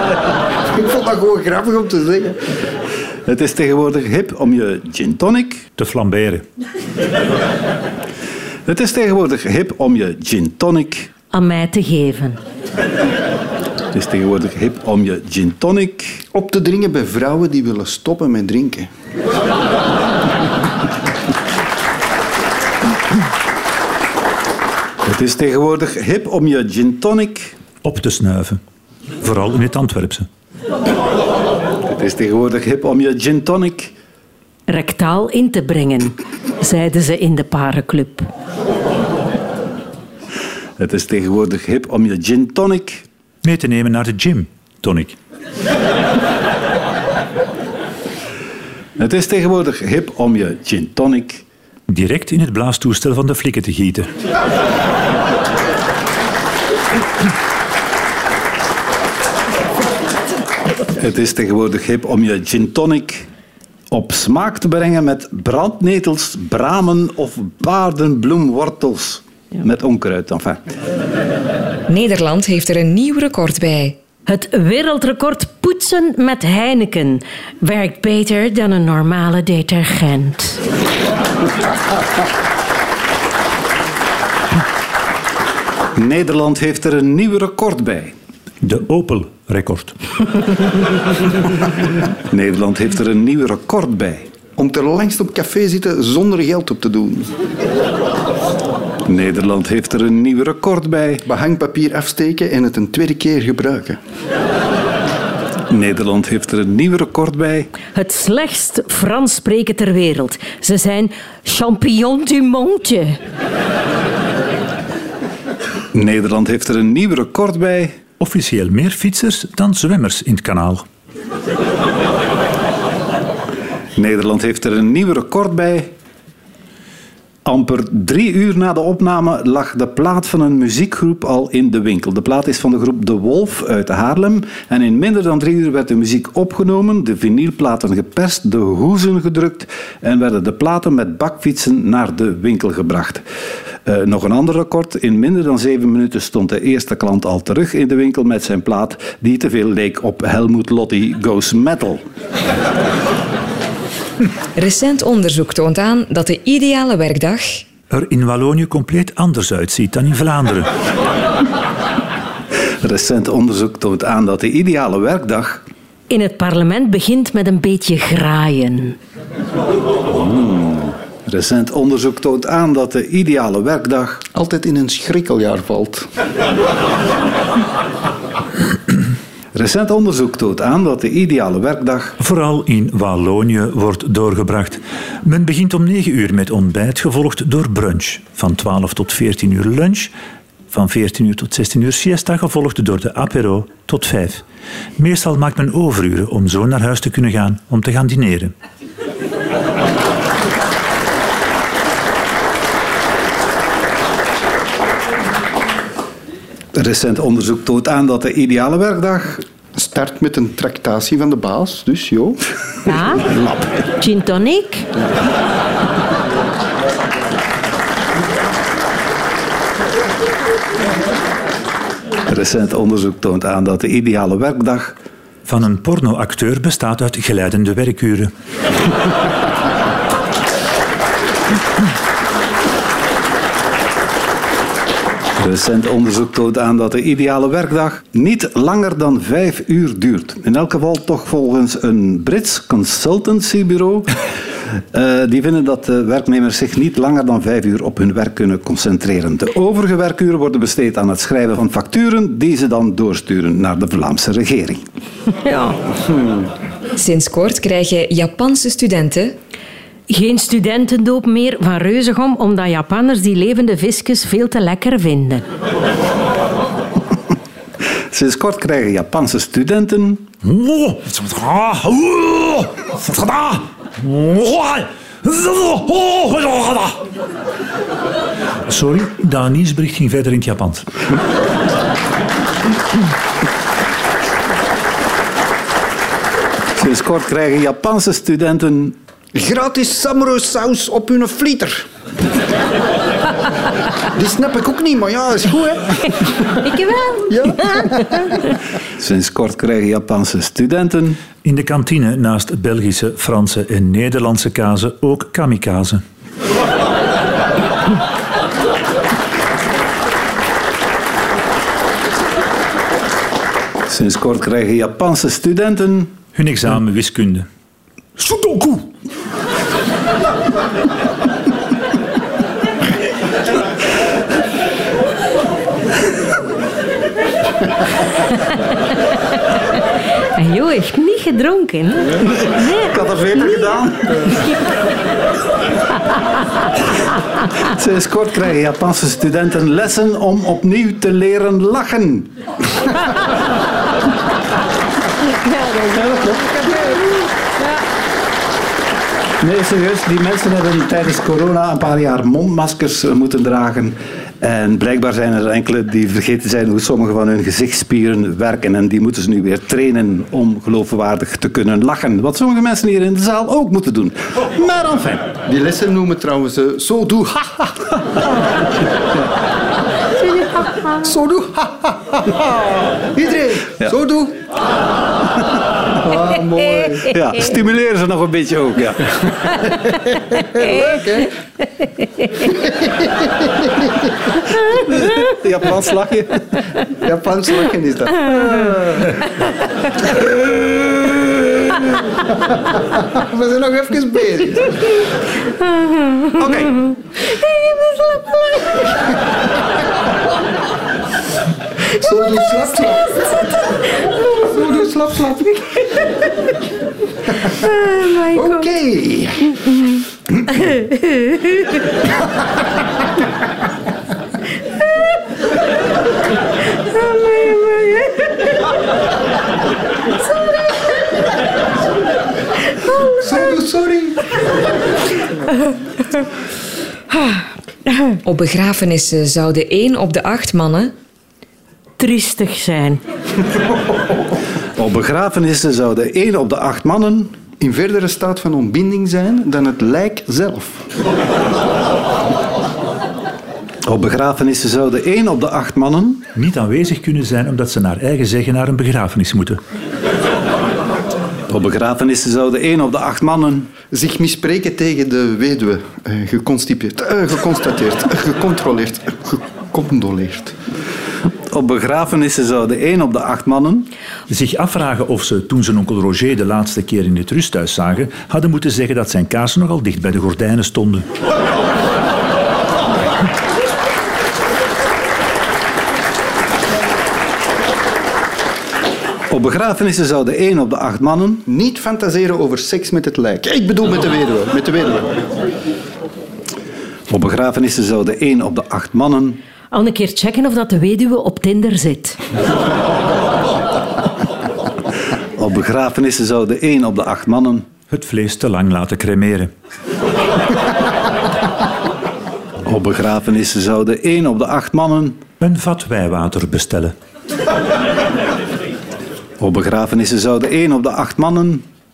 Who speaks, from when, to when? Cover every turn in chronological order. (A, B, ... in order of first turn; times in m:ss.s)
0:00.6-0:02.6 A
0:03.3-0:05.7 B
0:05.8-0:06.4 C
0:08.7-0:11.1 B
0:11.3-0:12.4 D
0:13.9-0:16.2 B
0:16.3-0:18.9 A
0:25.0-0:27.6 B
0:27.8-0:28.6 C
0:29.2-0:30.3 C
0:31.9-0:33.9 B
0:34.7-0:38.3 D
0:40.8-0:43.0 B
0:43.4-0:45.2 C
0:49.0-0:51.4 B
0:51.9-0:54.1 C
1:01.0-1:03.3 B
1:03.9-1:10.6 B
1:11.9-1:14.0 E
1:14.3-1:20.6 D
1:26.0-1:28.1 B
1:28.6-1:30.4 C
1:32.3-1:34.3 B
1:34.6-1:37.3 A
1:39.1-1:41.2 B
1:41.2-1:44.0 A
1:45.7-1:47.7 B
1:47.9-1:53.2 D
1:55.9-1:58.0 B
1:58.2-2:00.8 C
2:04.0-2:05.9 B
2:07.4-2:23.2 B
2:23.9-2:32.0 B
2:34.6-2:37.6 E
2:37.9-2:40.7 C
2:42.8-2:45.6 B
2:46.1-2:49.0 D
2:50.1-2:54.2 B
2:54.3-2:56.1 A
2:59.6-3:02.2 B
3:02.2-3:10.1 C
3:10.7-3:14.4 C
3:15.0-3:18.5 C
3:26.7-3:29.4 B
3:29.8-3:32.4 A
3:32.9-3:33.3 D
3:33.1-3:33.6 A
3:34.0-3:34.9 D
3:42.3-3:45.0 B
3:45.5-3:48.3 C
3:55.4-4:14.9 B
4:15.4-4:15.8 D
4:17.0-4:19.4 E
4:20.1-4:25.4 D
4:28.1-4:30.3 B
4:30.4-4:37.0 C
4:38.7-4:40.9 C
4:46.8-4:49.0 B
4:49.3-4:51.9 A
4:54.1-4:56.6 A
4:56.6-4:57.4 D
4:57.3-4:58.4 A
4:59.0-5:01.2 B
5:01.4-5:06.0 C
5:13.9-5:16.1 B
5:16.3-5:17.5 C
5:18.2-5:18.9 C
5:30.4-5:32.9 D
5:32.2-5:34.4 B
5:33.4-5:33.7 D
5:37.6-5:42.3 B
5:45.4-5:47.0 D
5:45.9-5:46.6 B
5:49.4-6:05.3 B
6:05.5-6:08.0 A
6:11.0-6:14.4 A
6:16.0-6:17.2 A
6:17.0-6:19.5 B
6:20.4-6:21.3 A
6:22.7-6:23.9 A
6:24.7-6:26.5 B
6:27.0-6:29.1 A
6:30.1-6:30.8 A
6:31.8-6:35.0 A
6:35.7-6:36.3 D
6:36.4-6:36.9 A
6:36.9-6:38.6 D
6:42.0-6:43.4 A
6:44.3-6:45.7 A
6:47.6-6:48.5 D
6:48.3-6:49.6 A
6:50.9-6:51.4 D
6:57.0-6:58.1 D
7:03.2-7:04.3 A
7:08.2-7:10.9 E
7:12.0-7:13.0 D
7:14.8-7:17.4 B
7:17.6-7:20.8 A
7:23.8-7:26.3 B
7:26.4-7:29.6 C
7:31.5-7:33.7 B
7:33.9-7:40.6 A
7:41.5-7:43.9 B
7:44.3-7:51.1 C
7:59.3-8:01.4 B
8:01.5-8:05.2 A
8:07.1-8:09.4 B
8:09.7-8:12.2 D
8:15.4-8:17.7 B
8:17.9-8:19.5 C
8:22.7-8:25.2 B
8:25.4-8:27.0 C
8:29.4-8:31.6 B